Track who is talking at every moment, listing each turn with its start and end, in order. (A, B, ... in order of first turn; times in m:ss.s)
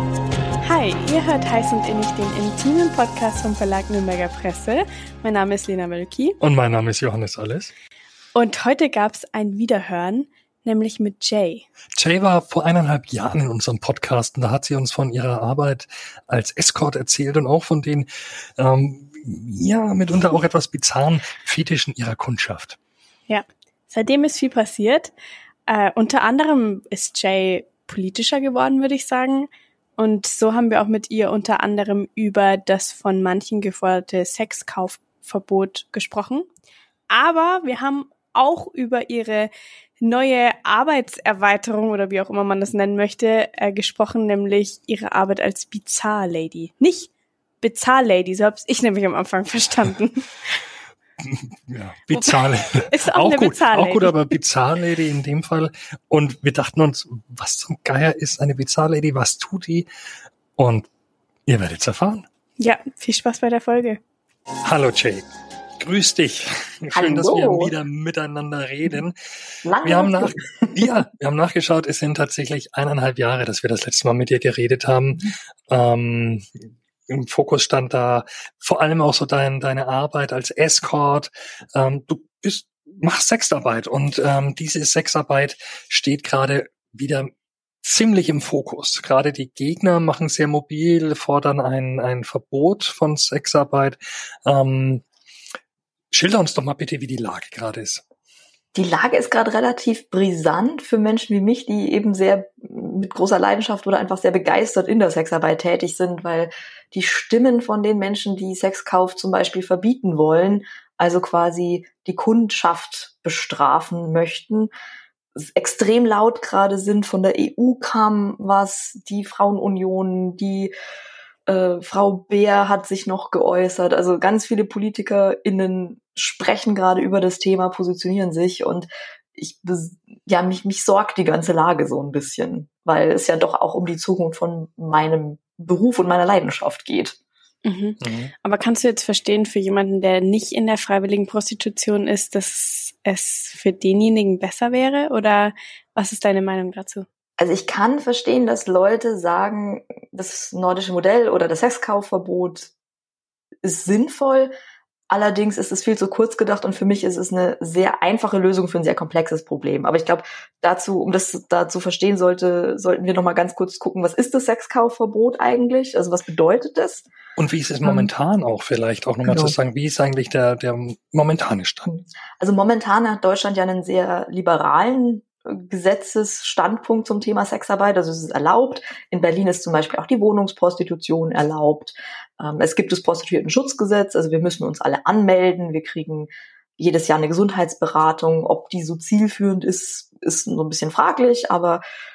0:00.6-0:06.4 A
0:06.4-0:07.7 B
0:08.3-0:11.7 A
0:12.0-0:18.1 B
0:18.6-0:22.8 B
0:23.3-0:25.1 A
0:25.7-0:36.5 A
0:37.1-0:47.1 A
0:47.6-0:50.3 A
0:51.3-0:59.9 B
0:52.1-0:54.2 A
1:00.6-1:00.9 B
1:01.4-1:02.2 B
1:02.6-1:04.0 A
1:04.6-1:05.2 B
1:05.8-1:16.5 B
1:06.9-1:07.7 C
1:09.6-1:10.9 C
1:17.1-1:27.3 B
1:27.8-1:35.0 B
1:36.1-1:38.0 B
1:38.7-1:54.7 C
1:55.4-2:00.7 C
2:01.5-2:17.2 C
2:17.6-2:27.0 A
2:18.0-2:18.3 B
2:27.4-2:32.7 C
2:33.6-2:34.5 C
2:35.1-2:47.1 C
2:47.4-2:51.9 B
2:49.2-2:49.5 C
2:51.9-3:11.8 C